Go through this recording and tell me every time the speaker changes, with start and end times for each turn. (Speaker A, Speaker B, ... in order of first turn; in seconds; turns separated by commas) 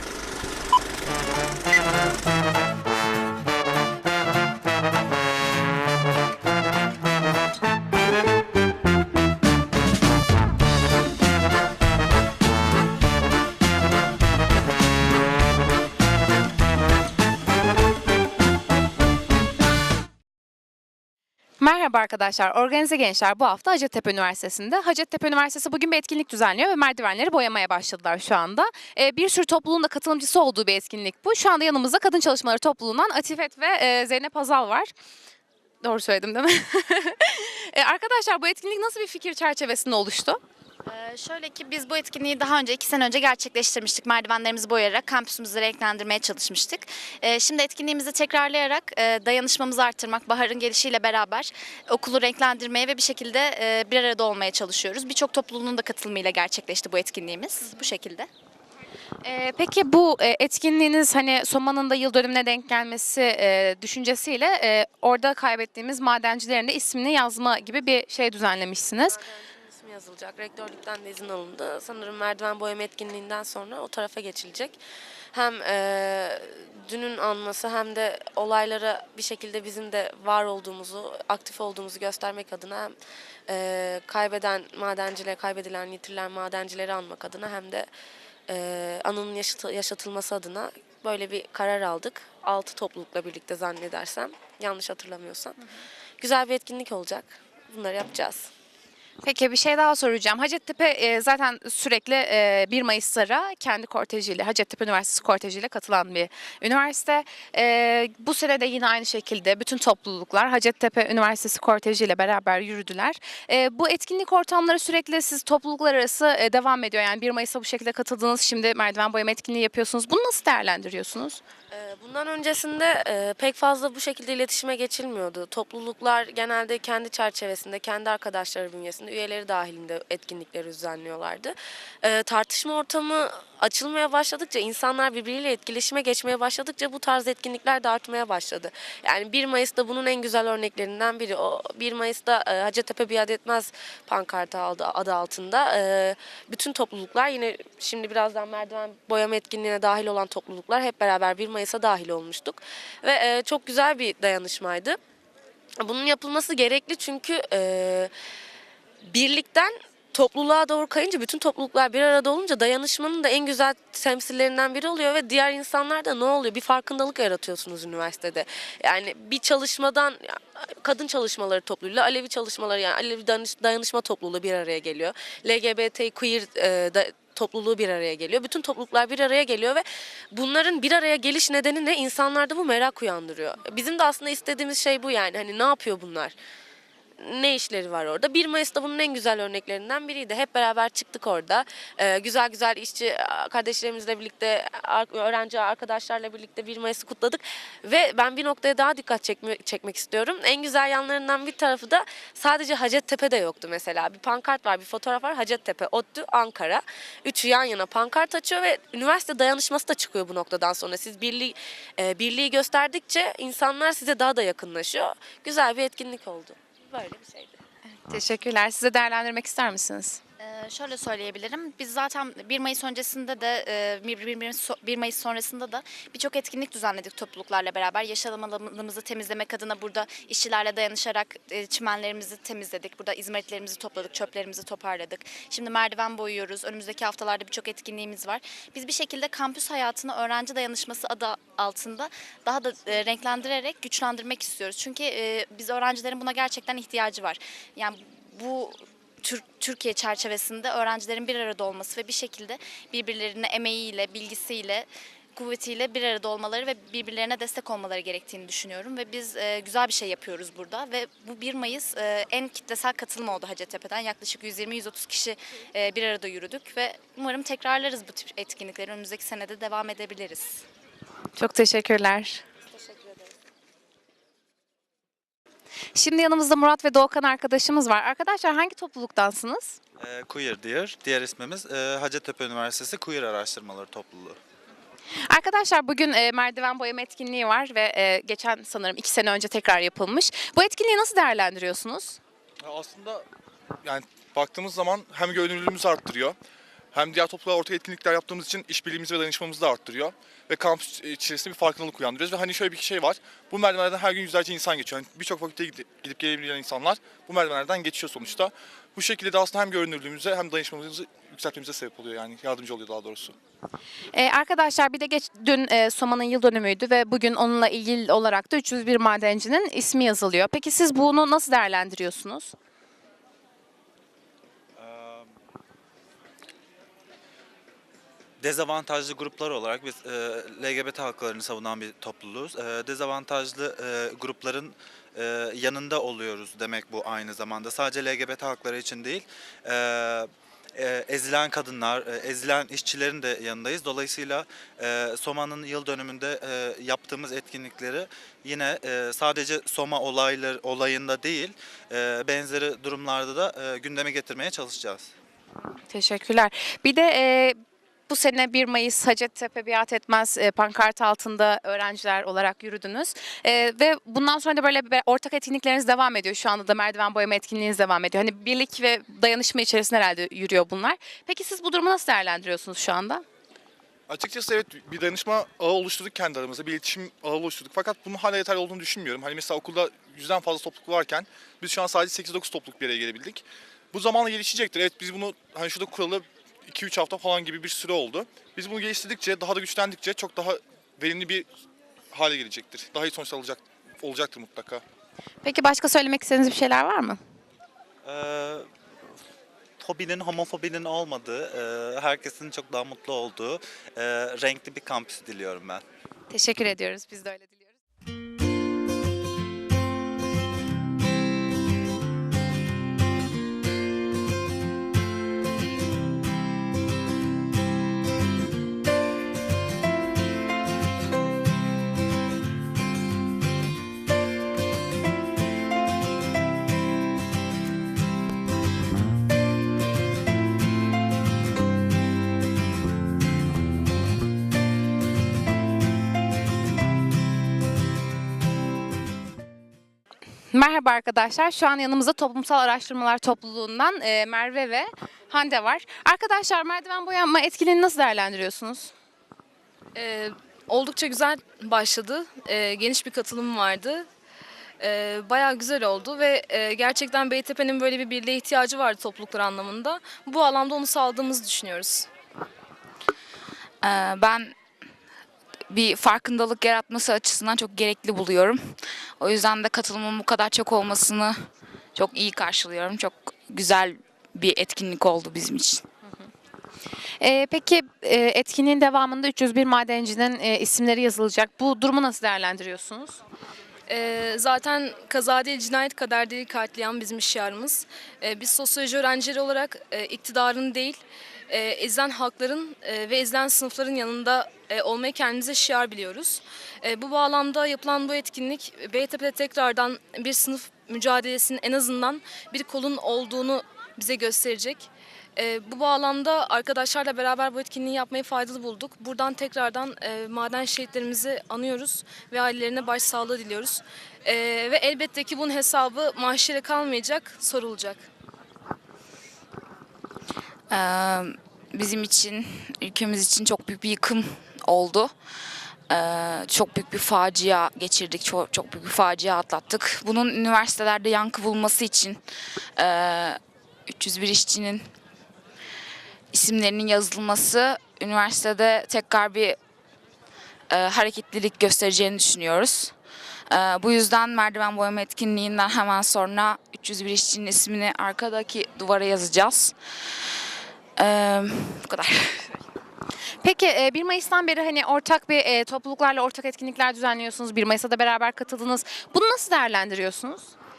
Speaker A: 21.6-34.9, Speaker A: 35.8-40.4, Speaker B: 40.9-58.3, Speaker A: 59.2-69.2, Speaker C: 69.0-74.8, Speaker C: 75.3-83.0, Speaker C: 83.5-87.9, Speaker C: 88.5-95.6, Speaker C: 96.2-98.5, Speaker A: 99.2-121.4, Speaker C: 121.7-155.0, Speaker C: 155.8-158.1, Speaker C: 159.0-186.3, Speaker C: 187.2-216.6, Speaker B: 216.9-217.5, Speaker A: 218.1-220.2, Speaker B: 220.4-270.6, Speaker A: 271.4-272.4, Speaker B: 272.7-273.1, Speaker A: 275.9-279.8, Speaker D: 280.0-284.4, Speaker A: 285.3-292.2, Speaker E: 292.6-293.2, Speaker E: 293.8-296.4, Speaker E: 296.9-313.4, Speaker A: 314.1-322.5, Speaker D: 324.8-325.3, Speaker D: 328.4-355.1, Speaker A: 355.9-373.2, Speaker E: 374.1-391.5, Speaker E: 392.1-394.8, Speaker A: 395.4-397.2, Speaker D: 398.0-398.7, Speaker D: 399.8-405.8, Speaker A: 406.3-407.7, Speaker A: 440.5-448.9, Speaker F: 449.9-454.1, Speaker F: 454.8-462.1, Speaker G: 463.8-464.6, Speaker G: 465.7-475.8, Speaker A: 477.2-483.2, Speaker F: 483.9-518.0, Speaker G: 520.7-525.1, Speaker G: 525.9-532.2, Speaker G: 532.8-534.9, Speaker G: 536.3-539.6, Speaker G: 540.7-542.9, Speaker G: 543.5-549.8, Speaker G: 551.0-552.5, Speaker A: 553.4-560.5